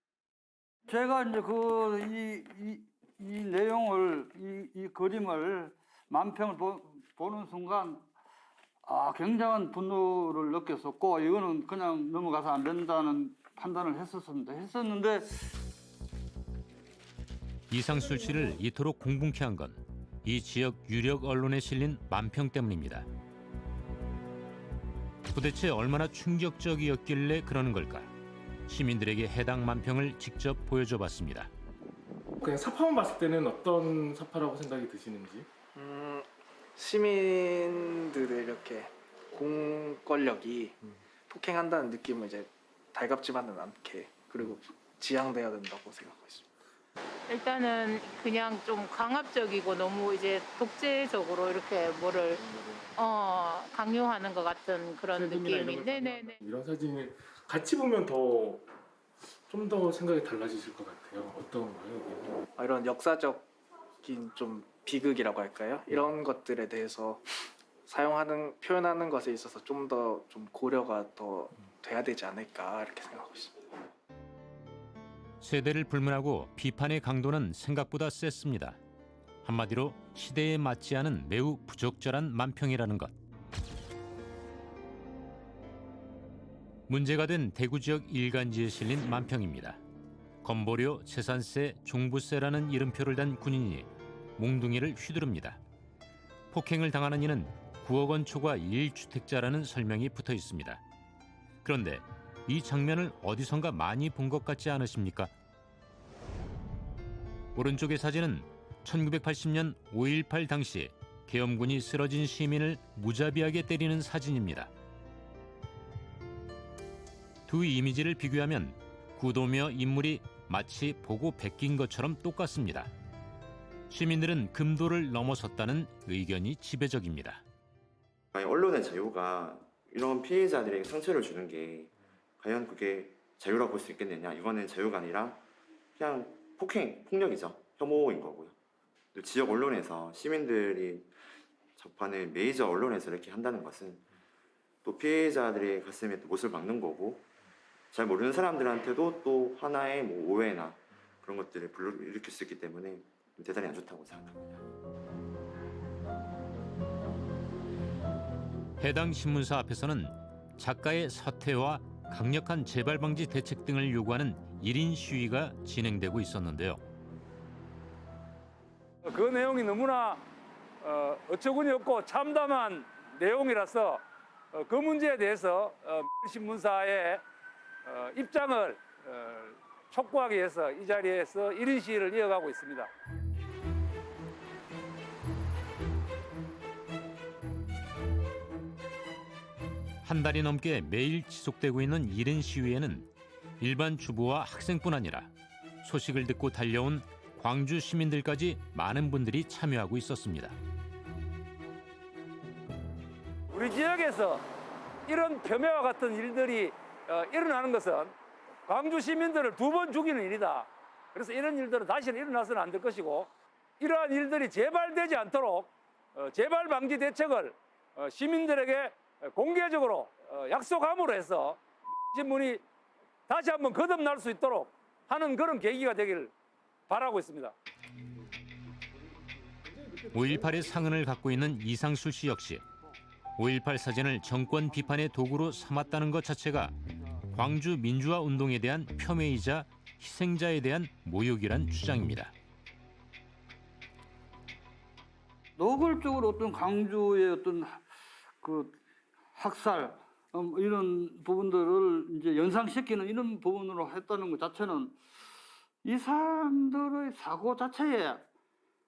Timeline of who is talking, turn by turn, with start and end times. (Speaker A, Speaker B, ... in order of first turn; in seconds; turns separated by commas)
Speaker A: 0.9-8.1, Speaker A: 8.8-15.6, Speaker B: 17.7-23.1, Speaker B: 25.3-28.1, Speaker B: 28.7-31.5, Speaker C: 32.4-35.5, Speaker D: 35.8-40.8, Speaker D: 41.3-46.5, Speaker E: 47.3-56.4, Speaker C: 52.4-52.9, Speaker C: 55.1-58.7, Speaker C: 59.5-62.5, Speaker D: 62.6-63.5, Speaker D: 64.0-73.7, Speaker B: 75.4-78.8, Speaker B: 79.4-83.1, Speaker B: 86.9-89.8, Speaker B: 90.4-95.6, Speaker B: 96.5-100.8, Speaker B: 101.6-105.3, Speaker B: 107.5-114.7, Speaker B: 117.5-122.9, Speaker B: 123.9-127.4, Speaker F: 128.3-135.4, Speaker F: 136.0-138.5, Speaker F: 139.2-144.1, Speaker F: 144.8-147.2, Speaker F: 147.9-154.6, Speaker B: 158.8-166.8, Speaker G: 169.1-170.2, Speaker G: 170.8-177.2, Speaker G: 177.8-182.9, Speaker B: 190.0-193.1, Speaker B: 193.6-195.3, Speaker B: 195.8-200.6, Speaker G: 203.5-204.5, Speaker G: 205.1-208.2, Speaker G: 208.7-222.6, Speaker G: 223.3-226.3, Speaker G: 226.9-227.6, Speaker B: 230.1-232.6, Speaker B: 233.4-236.8, Speaker B: 237.3-242.3, Speaker A: 245.6-247.8, Speaker A: 248.4-248.8, Speaker A: 249.3-255.0, Speaker A: 255.8-258.2